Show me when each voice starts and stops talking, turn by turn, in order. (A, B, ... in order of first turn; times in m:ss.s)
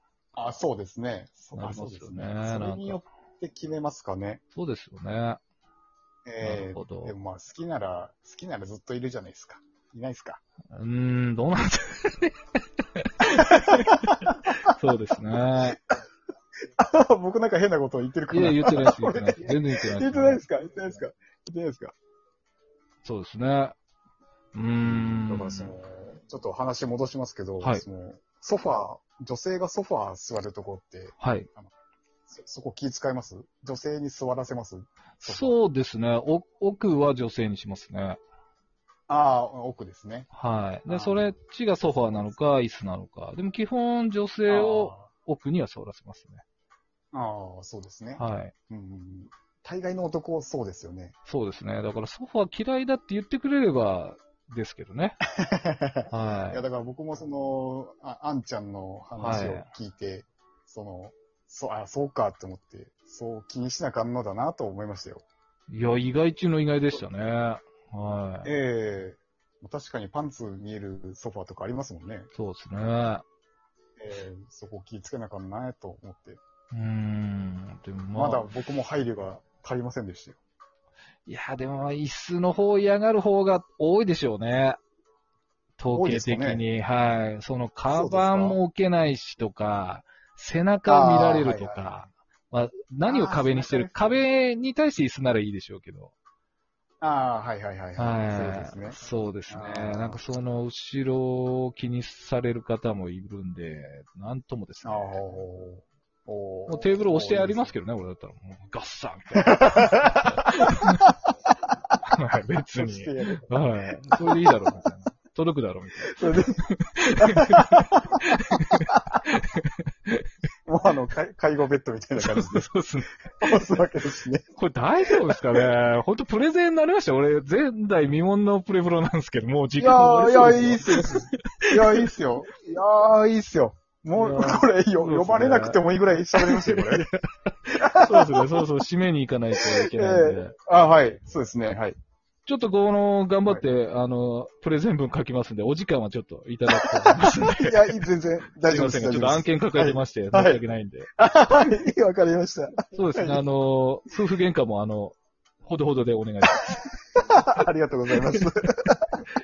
0:00.4-0:04.4 A
0:01.6-0:03.0 B
0:04.5-0:05.4 B
0:06.3-0:10.4 A
0:06.4-0:07.2 B
0:10.7-0:12.4 B
0:13.0-0:15.8 B
0:13.4-0:14.4 A
0:15.6-0:16.0 A
0:16.8-0:22.0 A
0:18.3-0:20.4 B
0:23.0-0:23.8 B
0:24.5-0:25.7 B
0:24.9-0:31.7 A
0:31.2-0:31.5 B
0:32.3-0:35.6 A
0:35.2-0:38.2 B
0:39.1-0:40.3 A
0:40.3-0:46.4 B
0:40.9-0:41.3 A
0:41.9-0:42.3 A
0:44.5-0:45.1 A
0:47.1-0:51.2 A
0:48.2-0:48.5 B
0:51.3-0:55.2 B
0:55.3-1:05.2 A
0:56.1-0:56.6 B
0:59.2-0:59.7 B
1:05.7-1:08.5 B
1:08.4-1:12.3 A
1:12.4-1:13.2 B
1:14.0-1:16.4 A
1:16.7-1:18.5 B
1:18.2-1:20.4 A
1:21.3-1:24.8 B
1:25.8-1:36.1 B
1:25.9-1:26.6 A
1:27.9-1:28.6 A
1:30.9-1:31.9 A
1:33.0-1:34.2 A
1:37.0-1:40.2 A
1:38.0-1:45.1 B
1:44.8-1:47.8 A
1:46.7-1:51.1 B
1:49.4-1:50.7 A
1:52.1-2:00.3 B
1:52.8-1:54.6 A
1:56.1-1:56.6 A
1:57.2-1:59.2 A
2:00.7-2:02.7 A
2:02.2-2:03.5 B
2:03.4-2:04.4 A
2:04.6-2:12.1 B
2:05.1-2:05.6 A
2:09.8-2:17.1 A
2:14.1-2:15.8 B
2:16.4-2:17.1 B
2:17.7-2:18.6 A
2:18.0-2:20.6 B
2:19.7-2:22.0 A
2:22.4-2:28.0 B
2:26.8-2:30.6 A
2:28.6-2:31.1 B
2:31.2-2:33.4 A
2:32.9-2:36.9 B
2:37.2-2:39.2 A